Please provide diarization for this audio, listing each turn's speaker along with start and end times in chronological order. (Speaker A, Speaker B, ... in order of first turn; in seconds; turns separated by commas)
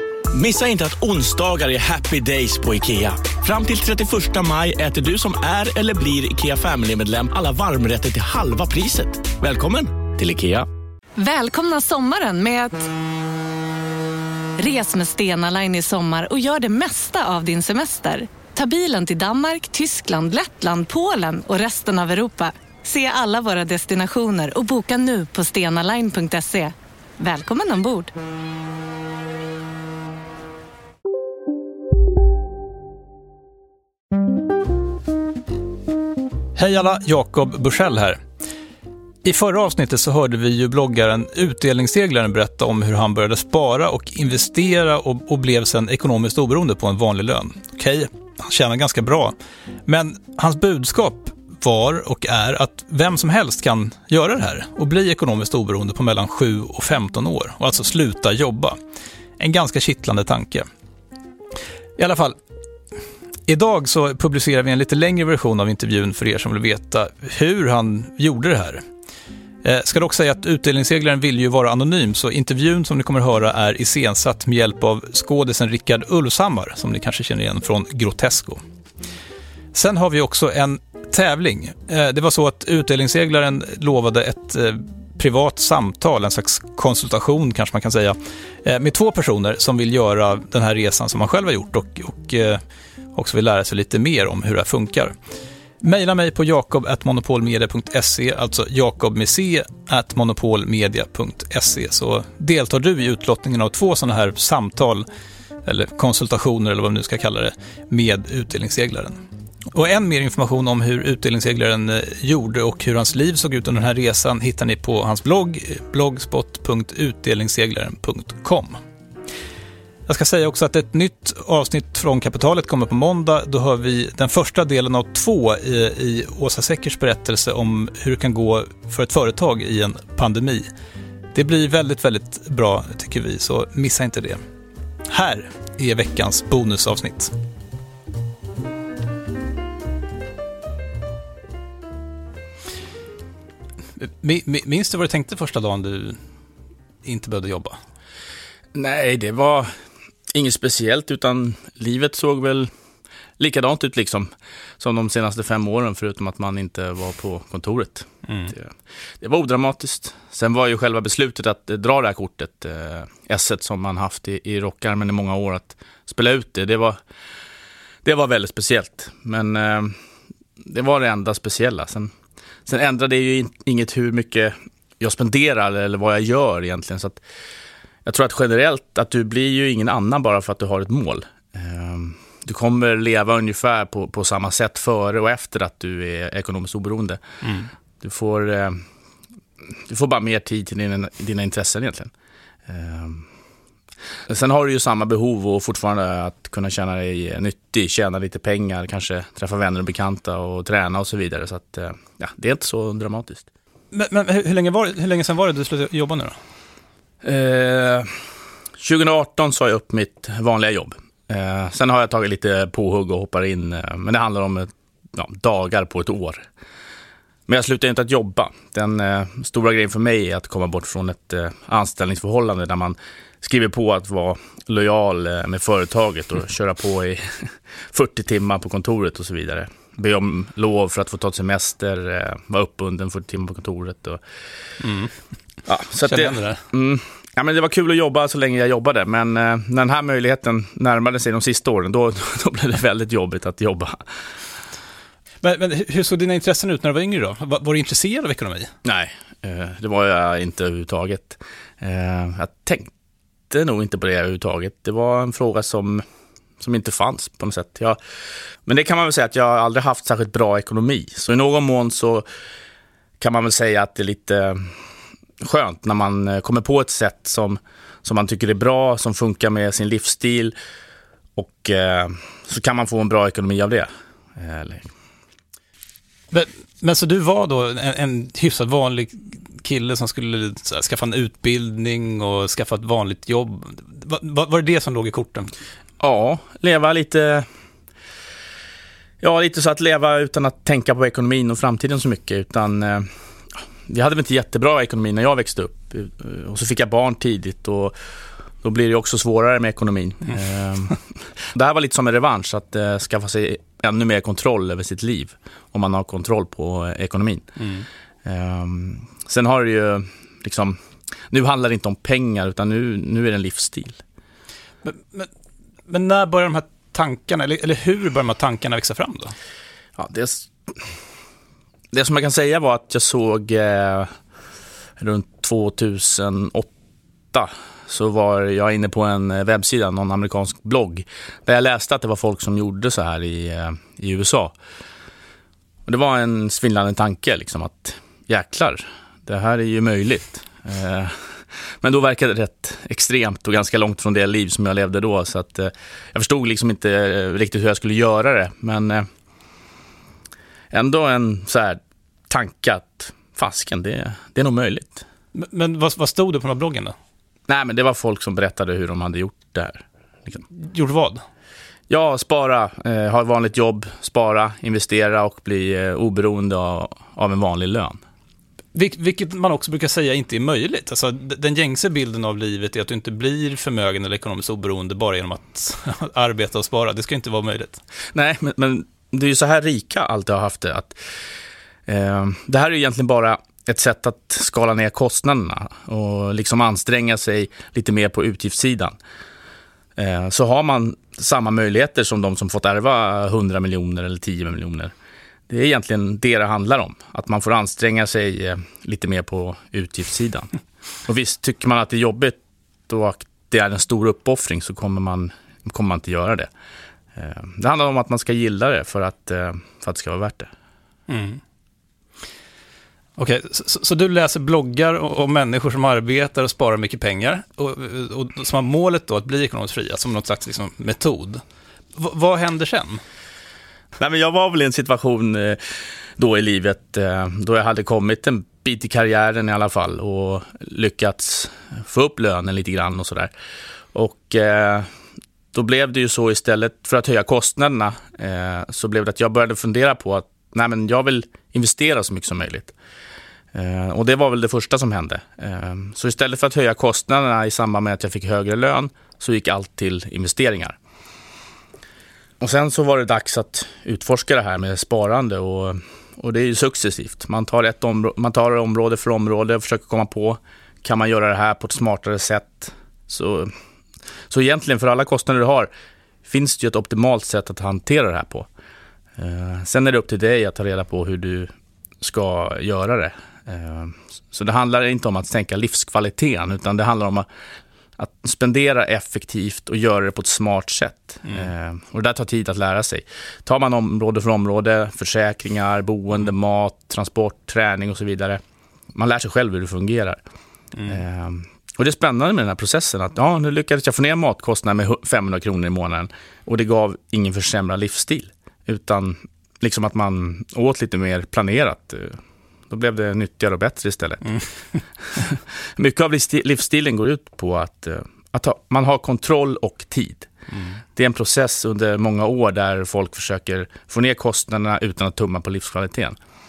Speaker A: 0.3-10.7, Speaker B: 11.2-12.9, Speaker B: 14.6-28.1, Speaker C: 36.5-38.2, Speaker C: 39.2-49.3, Speaker C: 49.9-58.8, Speaker C: 59.4-60.7, Speaker C: 62.0-62.4, Speaker C: 63.5-68.8, Speaker C: 69.6-78.6, Speaker C: 79.7-92.6, Speaker C: 93.1-95.1, Speaker C: 95.8-105.0, Speaker C: 105.6-109.2, Speaker C: 109.7-118.8, Speaker C: 120.1-130.7, Speaker C: 131.3-134.4, Speaker C: 135.1-137.3, Speaker C: 144.0-146.2, Speaker C: 147.0-147.8, Speaker D: 148.7-149.7, Speaker D: 150.3-152.7, Speaker D: 153.4-167.0, Speaker C: 158.3-158.5, Speaker D: 168.0-169.9, Speaker D: 170.6-172.1, Speaker D: 172.7-177.2, Speaker D: 178.0-187.2, Speaker C: 187.4-187.7, Speaker D: 188.0-188.8, Speaker D: 189.9-192.1, Speaker D: 192.7-193.3, Speaker D: 194.3-203.5, Speaker C: 203.9-206.4, Speaker D: 207.2-208.1, Speaker D: 208.8-216.4, Speaker D: 217.5-234.2, Speaker C: 234.8-235.1, Speaker D: 235.7-244.0, Speaker C: 236.0-236.6, Speaker C: 245.4-248.7, Speaker D: 248.8-252.9, Speaker D: 253.5-256.0, Speaker D: 256.6-258.0, Speaker D: 258.6-262.2, Speaker D: 263.2-264.7, Speaker D: 265.4-270.6, Speaker D: 271.4-274.9, Speaker C: 276.3-285.5, Speaker D: 286.0-287.5, Speaker D: 289.2-293.1, Speaker D: 293.9-298.0, Speaker D: 298.6-307.5, Speaker C: 307.6-307.9, Speaker D: 308.2-310.8, Speaker D: 311.3-314.0, Speaker C: 314.8-315.3, Speaker C: 315.9-319.3, Speaker D: 320.0-320.5, Speaker D: 321.9-324.1, Speaker D: 325.0-326.7, Speaker D: 327.3-334.5, Speaker D: 335.9-341.2, Speaker D: 341.8-349.1, Speaker D: 350.7-355.0, Speaker C: 355.3-356.9, Speaker D: 357.5-360.4, Speaker C: 360.5-361.2, Speaker D: 361.9-368.0, Speaker C: 368.7-377.8, Speaker D: 378.1-381.0, Speaker D: 381.9-389.0, Speaker D: 390.0-394.9, Speaker D: 395.5-400.5, Speaker D: 401.1-406.5, Speaker D: 407.1-410.5, Speaker C: 411.1-411.4, Speaker C: 413.2-421.4, Speaker C: 421.9-423.0, Speaker D: 424.0-425.6, Speaker D: 426.2-433.3, Speaker D: 433.9-434.9, Speaker D: 435.5-442.7, Speaker D: 443.5-450.8, Speaker D: 452.4-463.5, Speaker D: 464.3-465.7, Speaker D: 466.2-468.5, Speaker D: 469.2-477.3, Speaker D: 478.0-488.4, Speaker D: 488.9-490.2, Speaker D: 490.8-504.4, Speaker D: 505.0-510.3, Speaker C: 510.5-510.8, Speaker D: 510.9-516.2